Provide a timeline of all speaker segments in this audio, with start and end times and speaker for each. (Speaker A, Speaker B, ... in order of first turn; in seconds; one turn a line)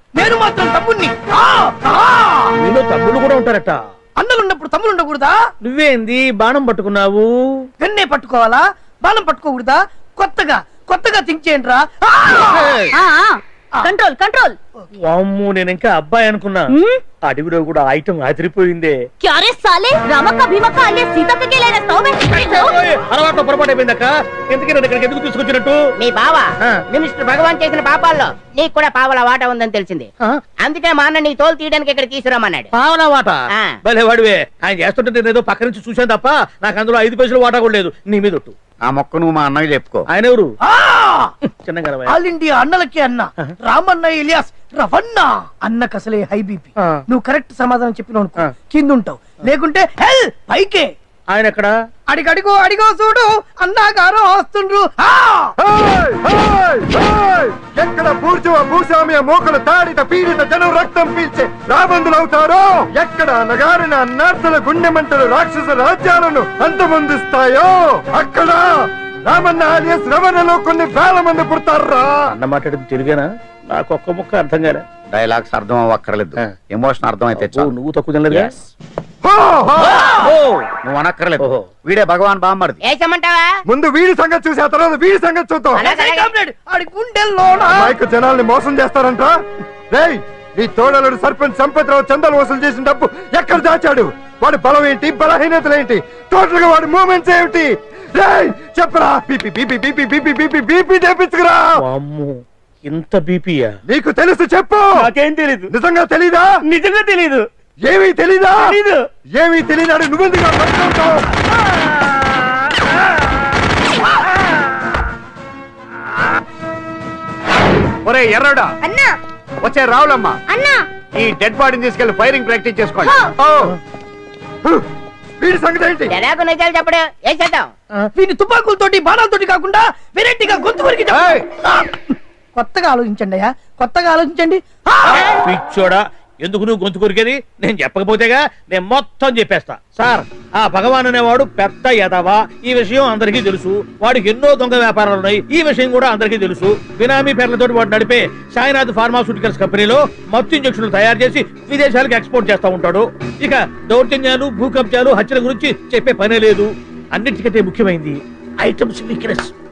Speaker A: 0.1-2.5
Speaker B: 2.6-3.8
Speaker A: 4.2-5.4
Speaker B: 5.6-7.7
Speaker A: 7.8-12.8
Speaker C: 12.9-14.6
Speaker B: 14.9-16.7
Speaker C: 16.7-17.0
Speaker B: 17.2-19.0
Speaker C: 19.2-22.7
Speaker B: 22.2-25.8
Speaker D: 26.0-30.1
Speaker D: 30.6-32.7
Speaker B: 32.7-38.5
Speaker E: 38.9-40.1
Speaker B: 40.1-40.5
Speaker A: 40.6-41.3
Speaker B: 41.5-42.1
Speaker A: 42.1-50.9
Speaker B: 51.3-51.7
Speaker A: 52.1-55.5
Speaker F: 55.6-72.3
Speaker B: 72.3-74.8
Speaker E: 75.1-77.7
Speaker B: 77.3-78.6
Speaker F: 79.2-80.0
Speaker B: 79.9-80.7
Speaker E: 80.8-82.8
Speaker B: 81.4-81.6
Speaker D: 82.8-83.6
Speaker F: 83.7-85.8
Speaker A: 85.8-87.9
Speaker D: 85.8-86.3
Speaker F: 87.7-89.4
Speaker F: 89.9-101.8
Speaker B: 101.8-102.3
Speaker B: 102.8-103.7
Speaker F: 103.9-105.1
Speaker B: 104.9-105.7
Speaker F: 105.7-106.5
Speaker B: 106.6-107.4
Speaker F: 107.8-108.8
Speaker B: 108.6-109.0
Speaker F: 109.3-111.2
Speaker B: 111.7-112.2
Speaker G: 118.0-118.7
Speaker C: 118.8-119.2
Speaker G: 119.6-120.4
Speaker C: 120.5-120.8
Speaker G: 121.1-123.2
Speaker C: 123.0-123.3
Speaker F: 123.4-123.7
Speaker F: 125.4-126.1
Speaker D: 126.1-127.7
Speaker A: 128.1-135.3
Speaker B: 135.2-159.5